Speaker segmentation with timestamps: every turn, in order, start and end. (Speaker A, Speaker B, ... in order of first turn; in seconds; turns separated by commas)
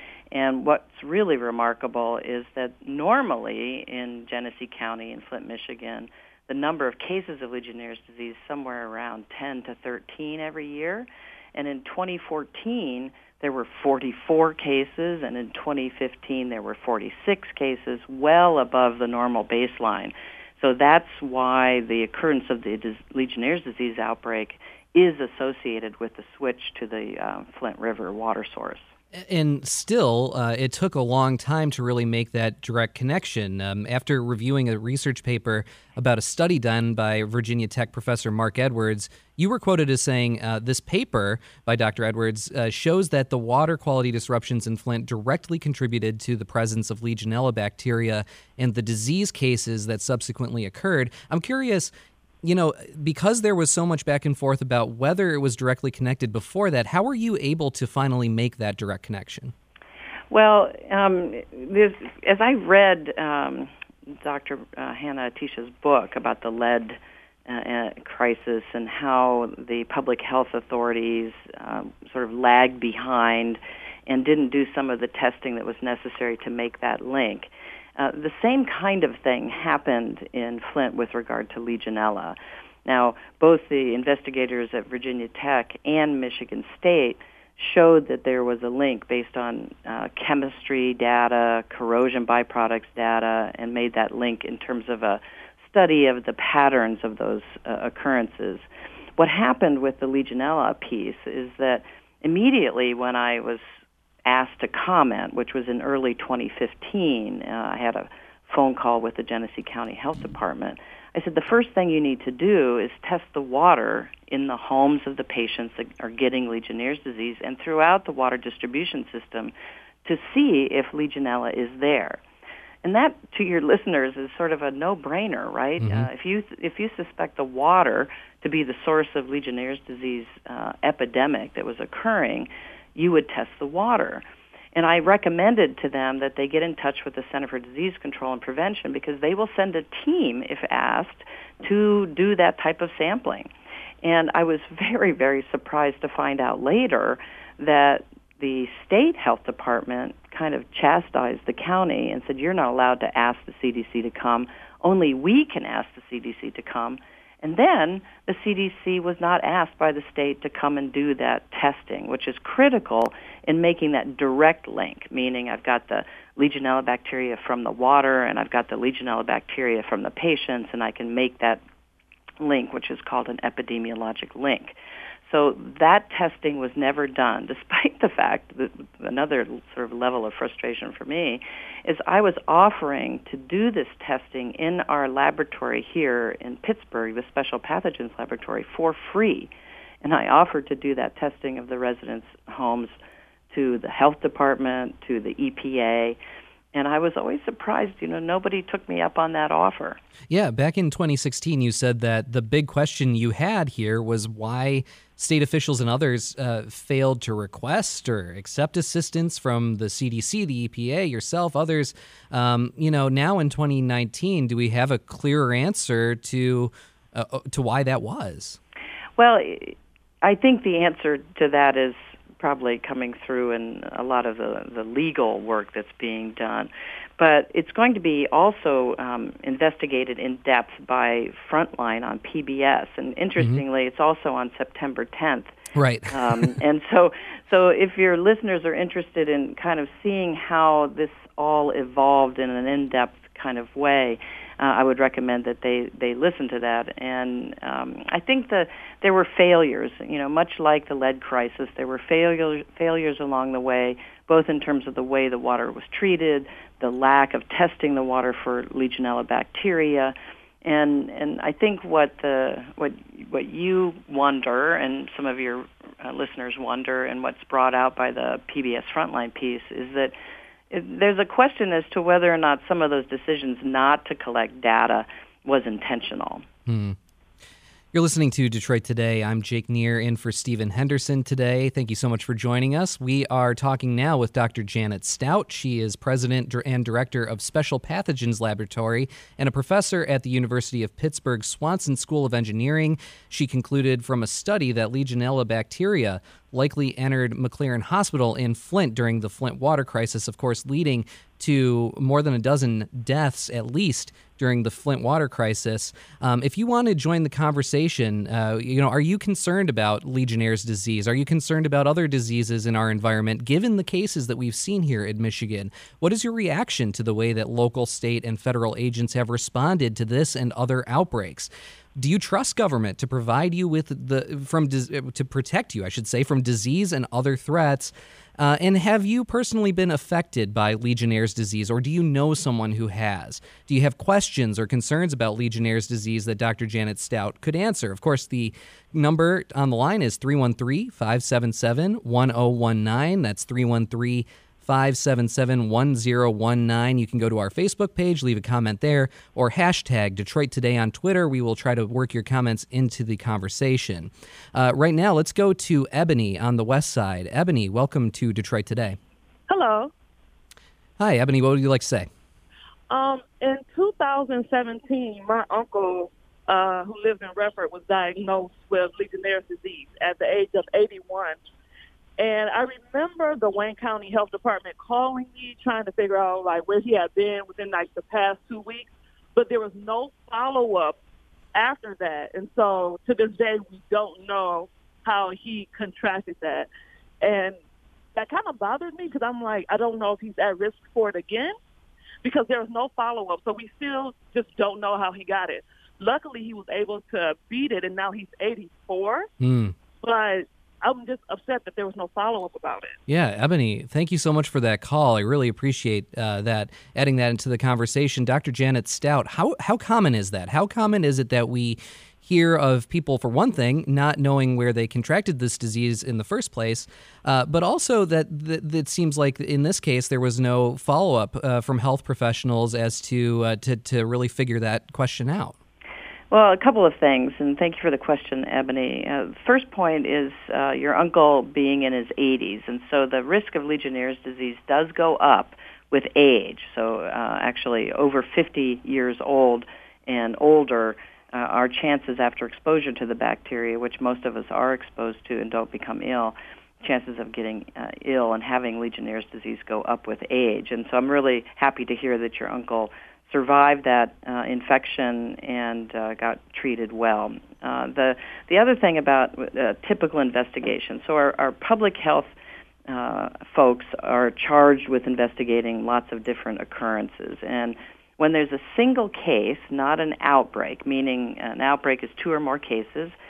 Speaker A: 0.3-28.9, Speaker B: 29.1-51.9, Speaker B: 52.4-59.5, Speaker A: 60.3-98.7, Speaker A: 99.2-103.7, Speaker A: 104.3-119.5, Speaker A: 120.0-122.2, Speaker A: 122.8-134.2, Speaker B: 125.8-126.1, Speaker A: 134.8-143.5, Speaker A: 144.0-171.6, Speaker A: 172.4-174.8, Speaker A: 175.3-189.5, Speaker A: 190.0-193.0, Speaker A: 193.5-196.2, Speaker A: 196.7-200.0, Speaker B: 200.3-218.6, Speaker A: 219.2-235.5, Speaker B: 235.8-236.6, Speaker A: 236.1-270.1, Speaker A: 270.7-276.4, Speaker B: 276.7-277.0, Speaker B: 277.9-359.0, Speaker C: 359.5-359.9, Speaker B: 361.0-362.1, Speaker C: 362.9-371.4, Speaker C: 372.2-381.0, Speaker C: 381.5-386.7, Speaker C: 387.2-387.6, Speaker C: 388.1-391.6, Speaker C: 392.2-399.3, Speaker B: 399.4-399.8, Speaker C: 400.0-403.0, Speaker B: 403.1-425.6, Speaker A: 426.3-462.3, Speaker A: 462.9-473.2